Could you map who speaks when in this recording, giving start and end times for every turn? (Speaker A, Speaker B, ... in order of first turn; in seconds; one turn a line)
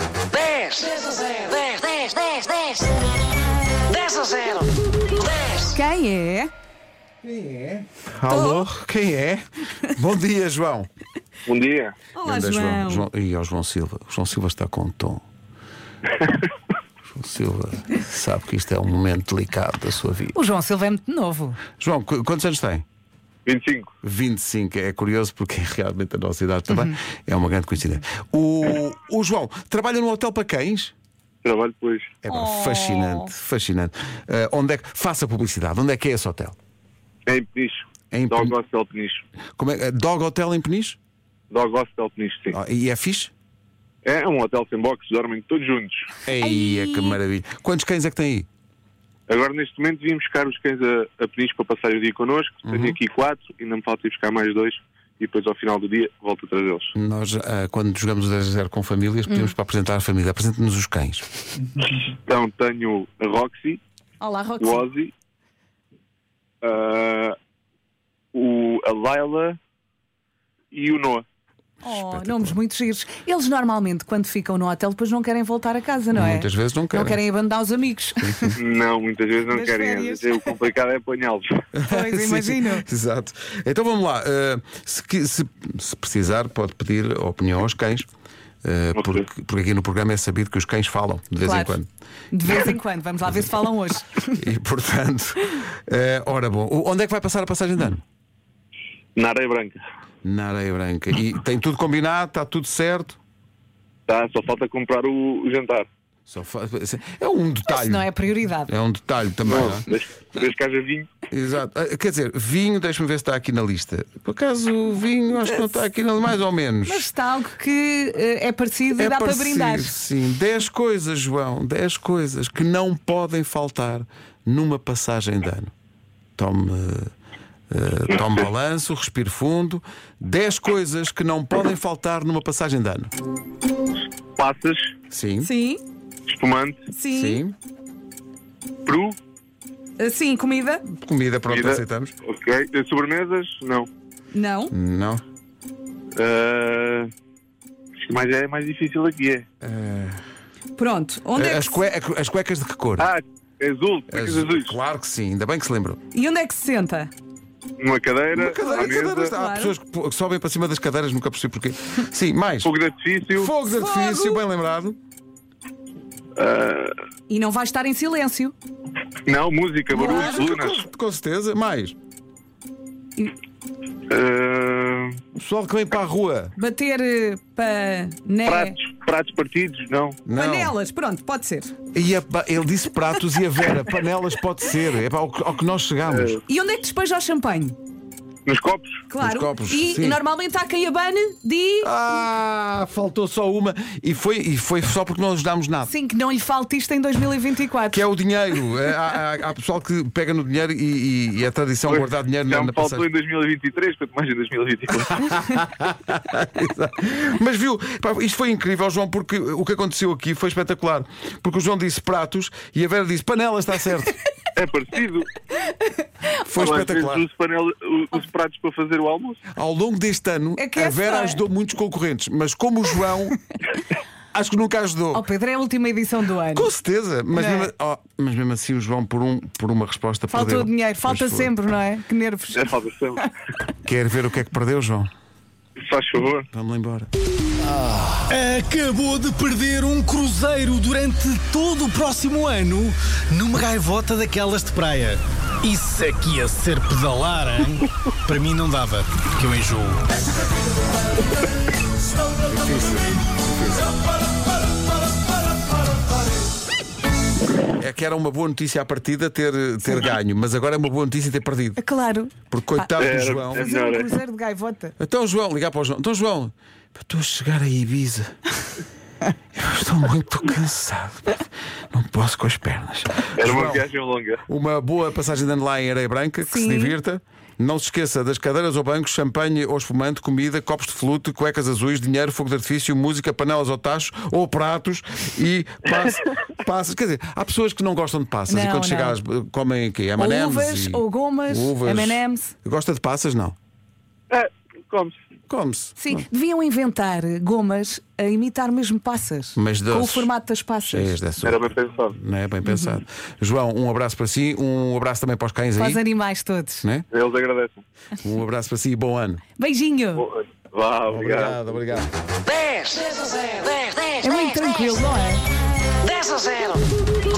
Speaker A: 0.3-2.9
Speaker A: 3.9-4.7
Speaker B: 5.6-6.5
Speaker C: 7.3-7.7
Speaker D: 8.1-10.9
Speaker B: 8.3-8.7
Speaker E: 11.5-12.0
Speaker B: 12.1-13.1
Speaker D: 12.2-15.2
Speaker E: 16.1-16.5
Speaker D: 17.1-20.4
Speaker B: 20.3-21.6
Speaker D: 21.8-22.9
Speaker E: 23.5-23.9
Speaker D: 24.0-30.9
Speaker B: 26.7-27.0
Speaker E: 31.4-32.1
Speaker D: 32.2-36.6
Speaker B: 32.3-33.3
Speaker E: 37.3-39.2
Speaker D: 38.1-38.5
Speaker D: 39.6-41.0
Speaker E: 41.5-42.6
Speaker D: 42.5-43.3
Speaker E: 44.0-46.1
Speaker D: 46.2-48.5
Speaker B: 46.4-47.2
Speaker E: 49.3-56.9
Speaker D: 52.7-53.0
Speaker D: 57.0-61.2
Speaker B: 59.3-59.5
Speaker E: 61.9-63.8
Speaker B: 64.2-64.9
Speaker E: 64.6-65.1
Speaker E: 66.6-67.4
Speaker E: 68.3-69.6
Speaker E: 70.7-71.2
Speaker D: 71.8-72.6
Speaker B: 71.8-78.6
Speaker D: 76.1-77.2
Speaker E: 78.6-81.6
Speaker B: 79.5-80.6
Speaker D: 81.7-88.1
Speaker B: 81.9-82.8
Speaker D: 88.6-91.9
Speaker E: 89.0-89.3
Speaker B: 91.4-91.8
Speaker B: 92.3-94.4
Speaker D: 94.3-98.0
Speaker E: 99.2-99.8
Speaker D: 100.2-103.2
Speaker E: 104.1-105.9
Speaker D: 106.3-108.1
Speaker B: 107.7-108.7
Speaker D: 108.7-109.9
Speaker E: 109.5-111.1
Speaker D: 111.3-117.1
Speaker B: 116.9-119.9
Speaker D: 118.9-125.7
Speaker D: 126.4-127.1
Speaker D: 127.7-133.1
Speaker E: 128.1-128.3
Speaker E: 134.4-134.9
Speaker D: 135.1-135.5
Speaker B: 135.4-135.8
Speaker E: 136.3-136.8
Speaker B: 136.9-137.4
Speaker D: 137.1-137.6
Speaker E: 138.9-139.2
Speaker B: 140.0-140.8
Speaker D: 140.9-142.1
Speaker E: 141.5-143.9
Speaker B: 144.3-144.7
Speaker D: 144.7-145.2
Speaker E: 146.2-147.1
Speaker E: 148.0-149.5
Speaker D: 149.6-150.2
Speaker B: 150.8-151.8
Speaker D: 151.3-153.1
Speaker E: 153.0-154.8
Speaker D: 154.1-156.0
Speaker B: 156.1-157.1
Speaker E: 157.8-159.3
Speaker D: 158.3-162.7
Speaker B: 158.6-159.8
Speaker E: 162.6-163.5
Speaker D: 163.3-165.0
Speaker B: 163.6-164.4
Speaker E: 166.4-166.9
Speaker B: 167.3-168.6
Speaker E: 169.3-170.8
Speaker B: 169.9-170.5
Speaker D: 169.9-171.9
Speaker E: 174.1-175.2
Speaker D: 175.4-176.6
Speaker B: 176.6-178.8
Speaker E: 178.5-180.2
Speaker D: 180.3-180.8
Speaker B: 180.3-181.7
Speaker D: 181.9-186.4
Speaker E: 186.1-186.4
Speaker B: 186.5-187.8
Speaker E: 188.5-189.0
Speaker B: 189.1-191.9
Speaker D: 189.2-190.2
Speaker D: 191.8-195.9
Speaker B: 195.9-198.1
Speaker D: 197.9-203.1
Speaker E: 201.9-205.3
Speaker D: 205.2-214.2
Speaker E: 214.6-215.3
Speaker D: 216.4-217.2
Speaker E: 216.6-219.4
Speaker D: 219.5-223.4
Speaker B: 220.6-221.4
Speaker D: 224.3-225.2
Speaker B: 225.1-226.7
Speaker D: 226.5-231.5
Speaker B: 227.3-227.7
Speaker B: 230.3-233.3
Speaker E: 232.6-233.2
Speaker D: 233.8-235.1
Speaker E: 235.8-236.5
Speaker D: 236.5-237.1
Speaker C: 238.2-250.1
Speaker C: 252.2-253.0
Speaker D: 252.5-253.9
Speaker C: 253.9-256.4
Speaker D: 257.7-261.8
Speaker B: 261.8-264.9
Speaker D: 262.5-263.7
Speaker E: 263.0-264.1
Speaker D: 265.0-268.4
Speaker D: 269.6-273.9
Speaker E: 273.4-274.4
Speaker D: 274.5-293.6
Speaker B: 276.5-277.0
Speaker B: 288.5-289.2
Speaker B: 290.2-292.5
Speaker E: 294.3-295.2
Speaker D: 295.5-296.3
Speaker B: 296.0-301.2
Speaker D: 299.6-300.3
Speaker D: 300.9-306.0
Speaker E: 301.4-302.2
Speaker B: 302.6-303.0
Speaker B: 305.8-306.8
Speaker E: 307.1-307.8
Speaker D: 308.2-309.4
Speaker B: 309.6-310.3
Speaker E: 310.2-311.6
Speaker D: 311.1-312.1
Speaker A: 312.7-313.9
Speaker B: 314.2-315.4
Speaker A: 316.1-316.8